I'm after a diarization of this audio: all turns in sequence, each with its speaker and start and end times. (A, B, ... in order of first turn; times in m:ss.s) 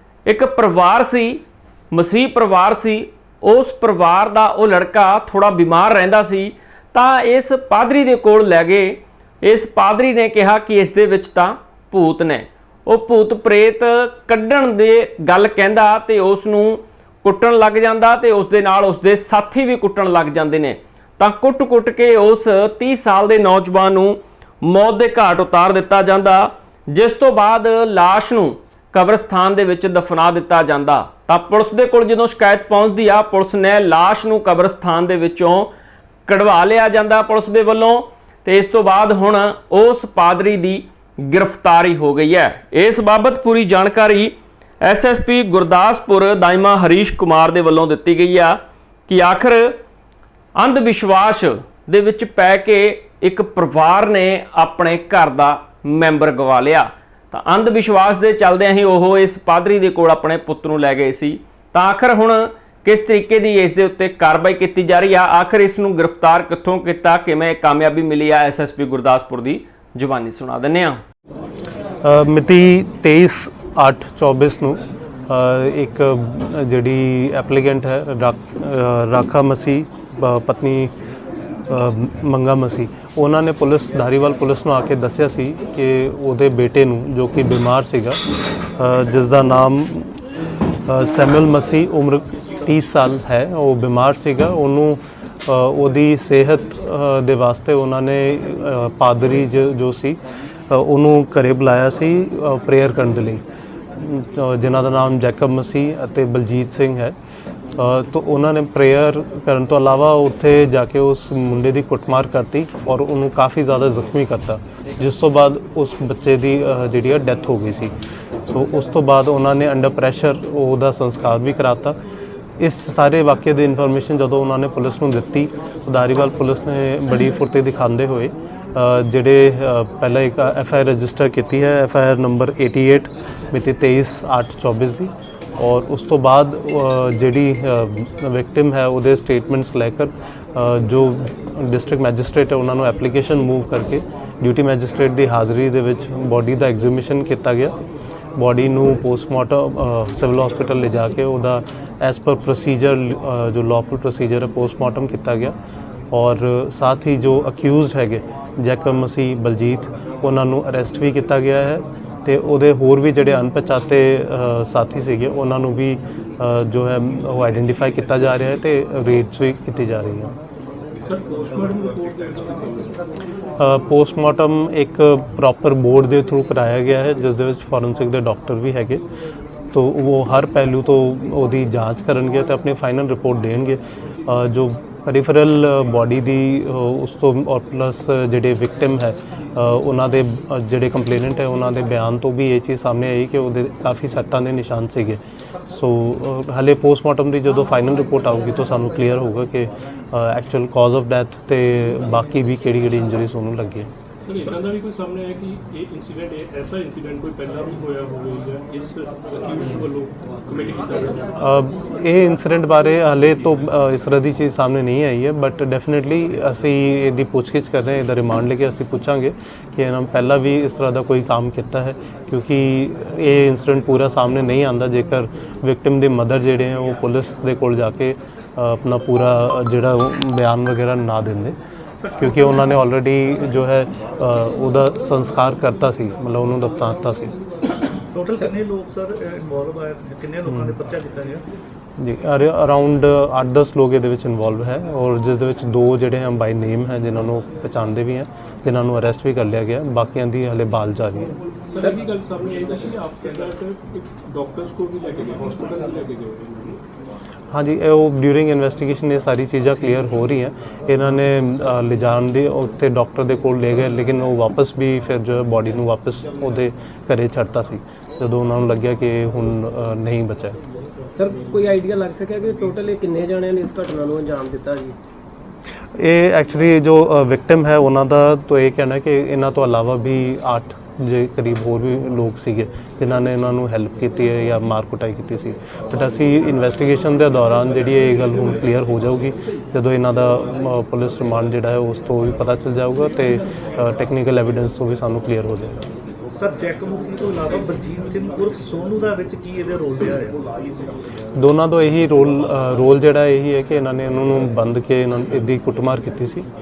0:00.2-0:35.7 A
0:36.3-0:49.8 A
0:50.6-1:11.0 A
1:12.0-1:20.9 B
1:21.7-1:28.2 B
1:28.8-1:30.2 B
1:30.9-1:40.2 B
1:40.7-1:43.4 B
1:43.9-1:47.2 B
1:47.8-1:57.9 B
1:58.4-2:02.0 B
2:02.6-2:27.7 B
2:28.4-2:35.5 B
2:36.1-2:50.3 B
2:51.0-2:53.0 C
2:53.6-2:59.0 B
2:59.7-3:15.2 B
3:15.7-3:23.9 B
3:24.2-3:31.3 C
3:31.4-3:51.6 B
3:52.2-3:57.3 B
3:58.1-4:01.4 D
4:02.0-4:11.3 B
4:11.7-4:16.8 C
4:17.5-4:30.6 B
4:31.1-4:34.9 E
4:36.0-4:55.8 B
4:56.3-5:00.4 D
5:01.4-5:06.4 B